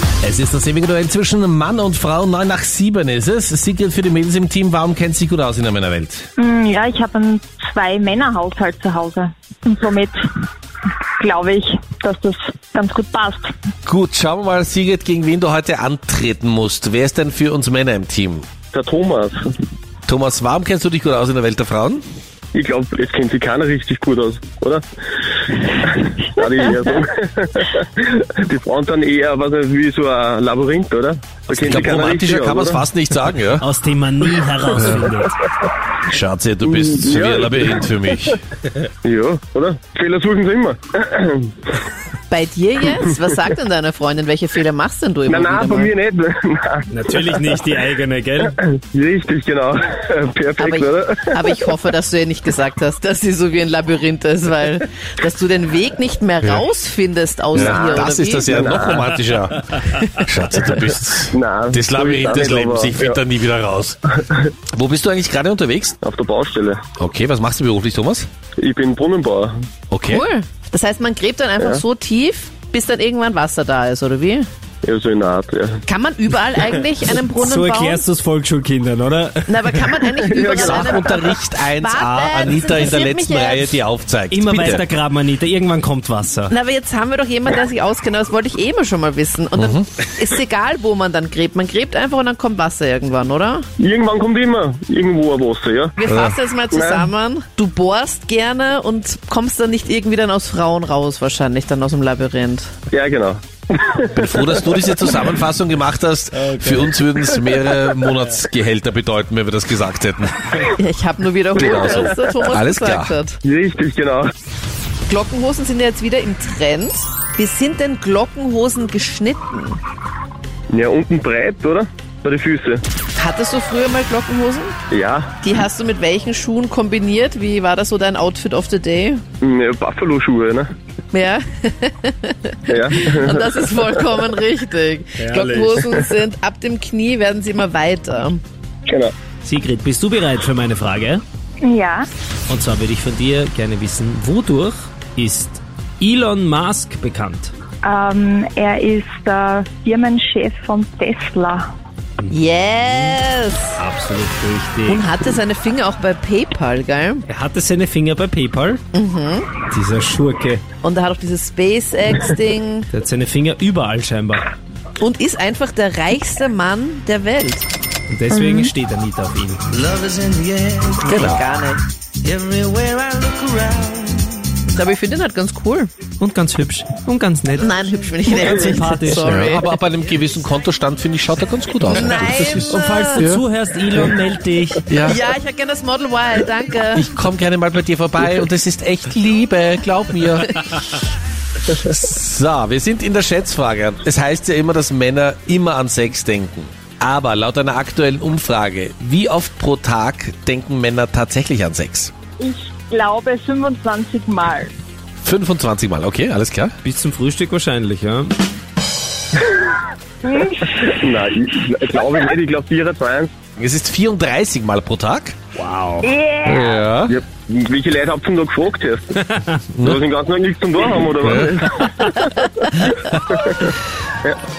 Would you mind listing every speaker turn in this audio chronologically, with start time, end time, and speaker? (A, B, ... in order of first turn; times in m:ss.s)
0:00.2-0:06.3 A
0:06.4-0:10.2 B
0:11.2-0:13.5 B
0:13.9-0:18.5 A
0:18.7-0:19.4 C
0:20.1-0:22.0 A
0:22.5-0:24.8 C
0:25.7-0:32.8 C
0:31.5-0:33.6 A
0:33.6-0:35.4 D
0:34.8-0:35.1 A
0:36.1-0:38.4 A
0:36.6-0:37.9 C
0:39.0-0:41.6 C
0:42.3-0:45.9 E
0:45.3-0:47.6 C
0:46.9-0:48.6 D
0:48.4-0:51.6 C
0:50.6-0:58.5 E
0:57.5-1:04.0 A
0:57.6-0:59.1 C
1:01.3-1:03.2 C
1:04.7-1:06.0 A
1:06.0-1:06.8 C
1:07.0-1:08.3 A
1:08.6-1:09.6 C
1:09.9-1:10.2 A
1:10.1-1:14.5 E
1:14.8-1:15.8 C
1:15.9-1:18.0 E
1:17.4-1:19.9 D
1:19.5-1:23.8 E
1:20.2-1:21.2 C
1:20.5-1:24.8 A
1:24.3-1:26.5 D
1:26.5-1:33.7 E
1:29.6-1:29.9 A
1:33.8-1:36.0 C
1:36.0-1:42.7 E
1:36.1-1:36.4 A
1:36.7-1:37.1 C
1:42.9-1:44.9 C
1:44.1-1:50.6 A
1:46.4-1:46.7 D
1:50.6-1:53.4 E
1:51.6-1:53.1 A
1:51.6-1:52.2 C
1:53.4-1:54.3 C
1:55.1-1:59.8 E
2:00.7-2:02.8 C
2:03.2-2:04.8 E
2:04.9-2:05.4 C
2:05.4-2:09.2 E
2:09.4-2:10.7 C
2:11.1-2:18.4 E
2:12.7-2:14.3 C
2:15.2-2:15.8 D
2:18.9-2:19.1 C
2:19.4-2:21.2 D
2:21.6-2:22.1 B
2:22.5-2:27.5 D
2:27.8-2:31.7 B
2:32.3-2:33.8 E
2:33.8-2:35.1 D
2:34.9-2:37.2 E
2:37.3-2:38.8 D
2:38.9-2:39.5 E
2:39.7-2:40.6 D
2:40.8-2:42.9 E
2:42.9-2:44.5 D
2:45.0-2:47.6 E
2:48.1-2:49.9 D
2:48.3-2:48.7 B
2:49.9-2:51.0 F
2:51.0-2:51.4 A
2:51.0-2:51.8 E
2:52.2-2:54.3 F
2:54.7-2:55.9 E
2:56.2-2:59.5 D
2:57.6-2:59.7 E
2:59.2-3:03.4 A
3:01.9-3:03.3 E
3:02.6-3:04.9 D
3:04.9-3:05.2 A
3:05.0-3:07.1 E
3:06.9-3:10.5 A
3:11.7-3:22.1 A
3:22.4-3:24.7 B
3:25.2-3:26.7 A
3:26.8-3:28.3 D
3:30.2-3:30.9 B
3:30.7-3:33.3 C
3:33.6-3:35.4 A
3:35.6-3:36.1 D
3:36.0-3:36.8 B
3:36.4-3:37.2 A
3:37.1-3:39.2 C
3:39.8-3:40.0 A
3:39.8-3:44.4 C
3:41.2-3:41.9 A